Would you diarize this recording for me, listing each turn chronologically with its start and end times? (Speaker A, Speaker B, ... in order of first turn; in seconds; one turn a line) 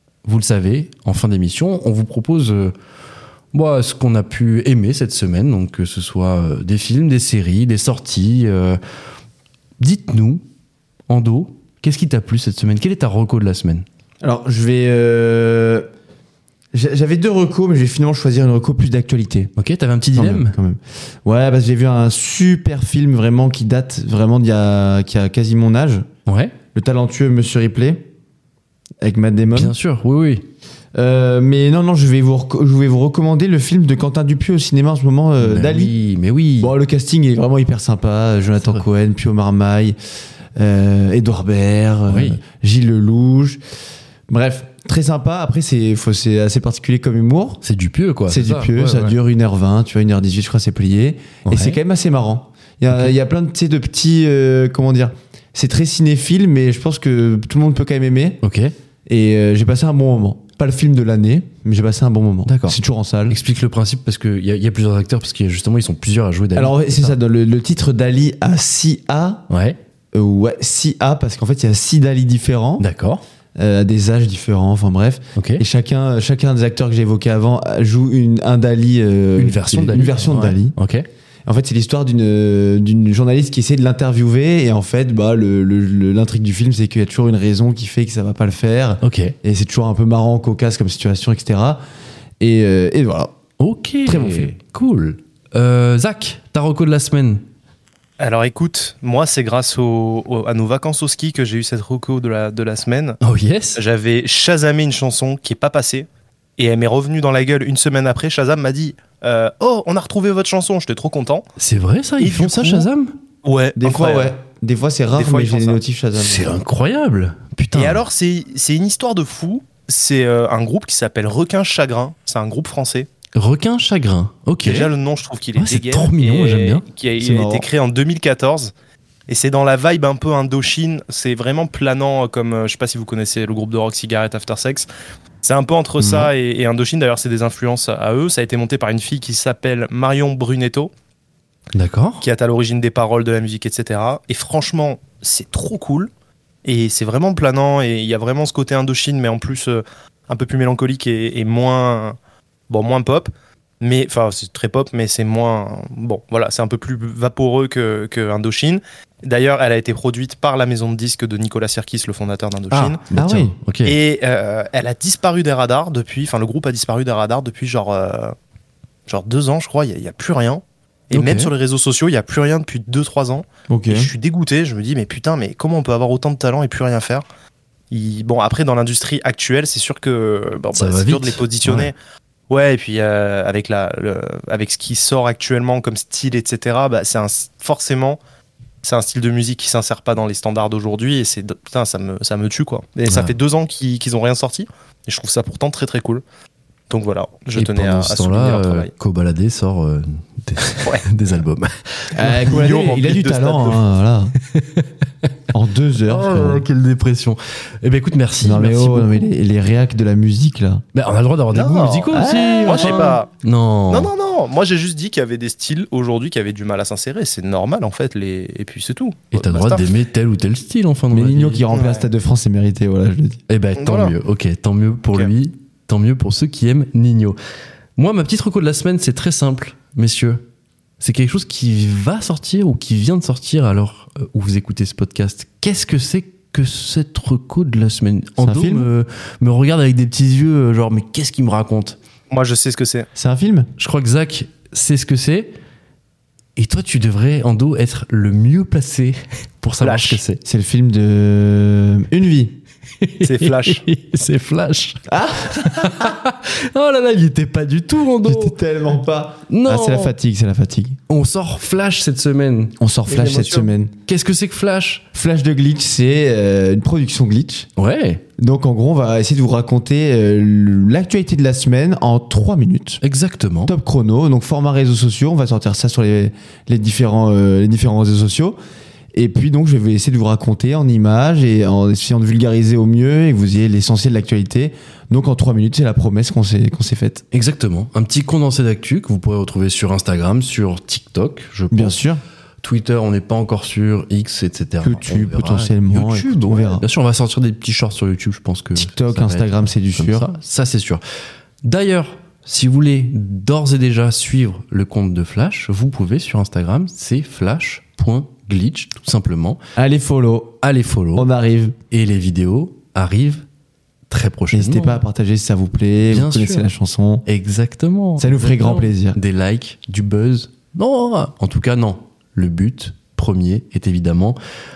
Speaker A: 0.2-2.7
Speaker A: 3.5-8.8
Speaker A: 9.8-10.4
Speaker A: 11.1-13.8
Speaker B: 14.2-15.8
Speaker B: 16.7-19.5
Speaker A: 19.6-20.5
Speaker B: 20.1-26.1
Speaker A: 26.2-26.5
Speaker B: 26.7-28.0
Speaker B: 29.0-29.7
Speaker A: 29.5-30.4
Speaker B: 30.9-35.9
Speaker A: 35.4-36.7
Speaker B: 36.6-40.0
Speaker B: 40.6-43.6
Speaker A: 42.1-42.4
Speaker B: 44.3-47.6
Speaker A: 47.6-49.2
Speaker B: 48.3-58.4
Speaker A: 51.4-51.8
Speaker A: 58.4-58.7
Speaker B: 59.1-63.4
Speaker A: 62.5-62.8
Speaker A: 63.3-67.2
Speaker B: 66.5-69.5
Speaker A: 69.5-69.8
Speaker B: 70.1-72.8
Speaker A: 72.8-73.2
Speaker B: 73.5-80.8
Speaker A: 75.3-75.6
Speaker A: 79.4-81.0
Speaker B: 81.5-91.8
Speaker A: 89.0-89.3
Speaker B: 92.4-93.3
Speaker A: 93.6-97.4
Speaker B: 94.0-94.5
Speaker C: 98.2-103.2
Speaker A: 103.2-103.8
Speaker C: 103.8-111.4
Speaker A: 111.6-113.1
Speaker C: 112.2-112.9
Speaker C: 113.4-114.3
Speaker B: 113.8-116.5
Speaker C: 115.1-115.8
Speaker A: 116.2-118.0
Speaker C: 117.7-123.1
Speaker A: 123.3-124.9
Speaker C: 124.6-128.7
Speaker A: 125.5-126.8
Speaker B: 127.2-127.7
Speaker C: 129.3-134.9
Speaker C: 135.4-140.9
Speaker B: 136.0-136.3
Speaker A: 141.7-142.2
Speaker C: 142.2-146.1
Speaker C: 146.6-152.2
Speaker C: 152.7-153.3
Speaker C: 153.8-163.0
Speaker A: 162.7-163.9
Speaker B: 163.1-163.6
Speaker C: 163.8-168.3
Speaker C: 169.1-177.2
Speaker A: 171.1-171.5
Speaker B: 173.7-174.1
Speaker C: 177.9-181.9
Speaker A: 180.7-181.9
Speaker C: 182.5-188.2
Speaker C: 188.8-196.2
Speaker A: 193.1-193.3
Speaker C: 196.9-198.9
Speaker A: 197.5-202.5
Speaker B: 202.1-204.3
Speaker C: 202.3-203.8
Speaker A: 204.5-205.3
Speaker B: 205.5-206.7
Speaker A: 206.1-209.3
Speaker B: 208.4-210.8
Speaker A: 210.9-214.1
Speaker C: 211.5-213.3
Speaker B: 212.1-213.2
Speaker C: 213.9-219.9
Speaker A: 219.3-221.6
Speaker B: 221.1-223.4
Speaker C: 221.7-222.0
Speaker A: 223.5-227.4
Speaker C: 223.8-224.1
Speaker A: 228.0-230.4
Speaker A: 231.0-242.0
Speaker B: 238.4-238.9
Speaker C: 242.3-243.1
Speaker B: 243.2-243.7
Speaker A: 243.8-245.5
Speaker A: 246.6-250.4
Speaker C: 249.8-250.2
Speaker B: 250.4-252.5
Speaker A: 253.0-258.6
Speaker C: 253.2-253.9
Speaker B: 255.1-256.1
Speaker B: 258.2-261.0
Speaker A: 259.5-260.1
Speaker A: 261.1-262.7
Speaker B: 262.8-263.9
Speaker C: 263.1-263.7
Speaker A: 264.1-265.0
Speaker B: 265.1-267.7
Speaker A: 267.8-268.2
Speaker B: 268.4-273.0
Speaker A: 273.0-273.7
Speaker B: 273.6-278.6
Speaker B: 279.1-287.2
Speaker A: 287.3-292.0
Speaker B: 291.7-292.2
Speaker A: 292.6-301.0
Speaker B: 294.8-296.8
Speaker B: 298.8-300.3
Speaker A: 301.6-309.6
Speaker B: 309.8-310.6
Speaker A: 310.6-311.3
Speaker B: 311.1-311.8
Speaker A: 311.9-313.4
Speaker A: 314.1-315.0
Speaker B: 314.5-317.2
Speaker A: 316.1-316.7
Speaker A: 317.2-324.4
Speaker B: 318.2-319.2